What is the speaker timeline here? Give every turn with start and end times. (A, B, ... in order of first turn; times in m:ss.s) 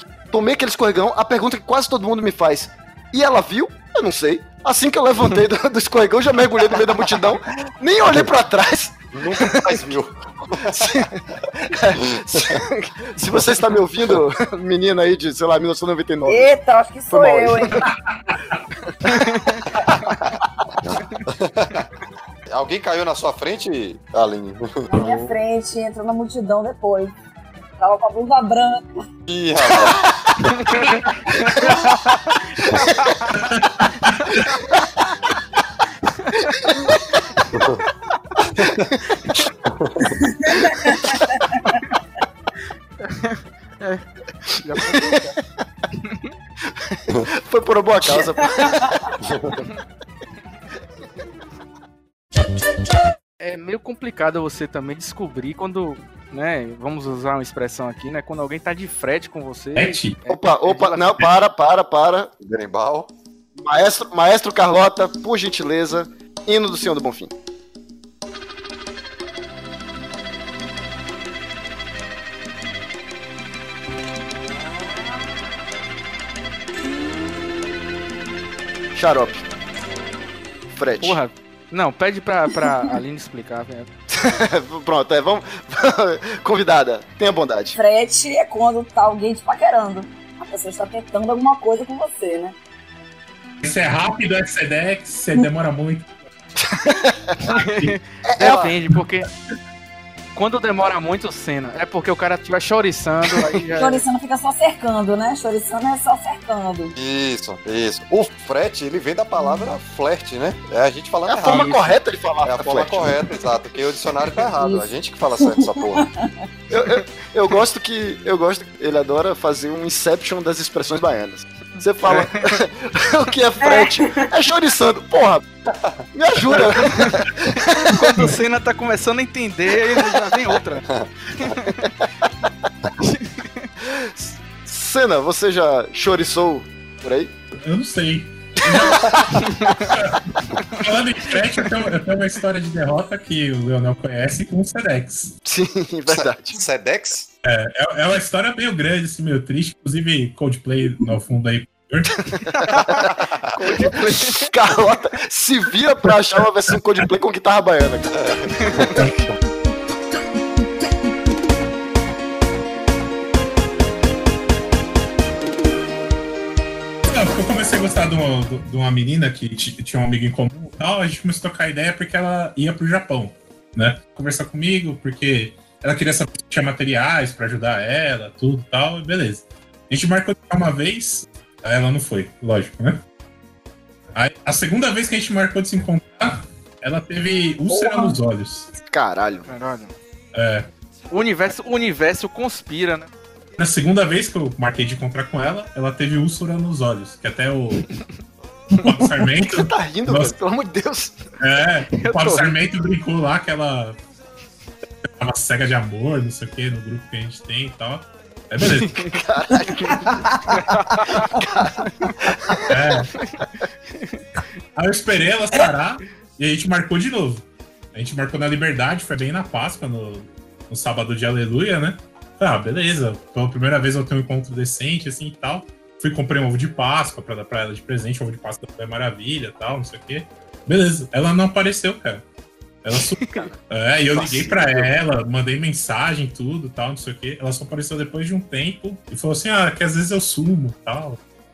0:00.3-0:10.0 A
0:09.1-0:11.0 B
0:10.6-0:16.5 A
0:16.2-0:17.9 C
0:17.1-0:17.8 A
0:18.3-0:18.6 D
0:19.1-0:19.6 E
0:20.8-0:21.9 B
0:22.5-0:25.2 B
0:24.9-0:27.2 C
0:27.8-0:28.9 C
0:29.3-0:30.0 B
0:30.6-0:32.0 E
0:32.6-0:33.2 E
0:33.4-0:34.4 D
0:36.1-0:36.4 E
0:37.6-0:37.8 B
0:38.6-0:38.9 B
0:39.7-0:40.0 B
0:40.3-0:41.2 C
0:43.0-0:44.0 E
0:44.6-0:45.4 E
0:44.8-0:45.2 A
0:46.0-0:46.3 E
0:46.7-0:49.2 A
0:48.6-0:48.9 C
0:49.2-0:49.6 B
0:53.4-1:01.2 E
0:59.8-1:00.2 D
1:00.3-1:02.3 A
1:02.4-1:03.1 B
1:03.6-1:07.3 A
1:18.9-1:19.5 A
1:20.7-1:21.2 A
1:21.0-1:23.9 E
1:24.1-1:27.8 A
1:27.7-1:32.6 C
1:33.6-1:36.3 D
1:36.6-1:37.3 A
1:37.4-1:38.0 D
1:37.5-1:39.3 E
1:38.2-1:38.7 A
1:38.4-1:38.7 B
1:40.4-1:44.0 E
1:43.8-1:47.0 C
1:47.0-1:56.0 B
1:51.3-1:53.3 A
1:54.6-1:56.3 C
1:56.7-2:05.5 A
2:02.1-2:02.6 E
2:03.6-2:04.3 C
2:06.1-2:08.0 A
2:06.9-2:07.2 E
2:07.8-2:11.9 E
2:13.0-2:13.7 E
2:13.8-2:17.3 A
2:17.6-2:25.4 D
2:19.4-2:19.9 E
2:25.4-2:26.6 A
2:26.1-2:27.3 B
2:27.4-2:32.3 D
2:32.4-2:34.5 E
2:33.7-2:38.8 A
2:38.2-2:38.8 B
2:38.9-2:39.3 D
2:47.1-3:03.0 D
3:04.2-3:08.7 D
3:08.8-3:09.5 A
3:09.5-3:09.9 E
3:10.3-3:10.7 D
3:11.1-3:13.1 E
3:13.6-3:18.0 D
3:18.7-3:20.3 D
3:19.4-3:21.2 A
3:21.4-3:24.0 D
3:21.9-3:22.6 E
3:25.2-3:29.2 D
3:29.1-3:30.2 A
3:30.5-3:31.3 E
3:31.4-3:31.7 A
3:31.9-3:32.1 E
3:32.3-3:32.6 A
3:32.7-3:33.1 D
3:33.2-3:34.2 E
3:34.8-3:52.2 D
3:52.8-4:01.2 D
3:54.2-3:54.8 A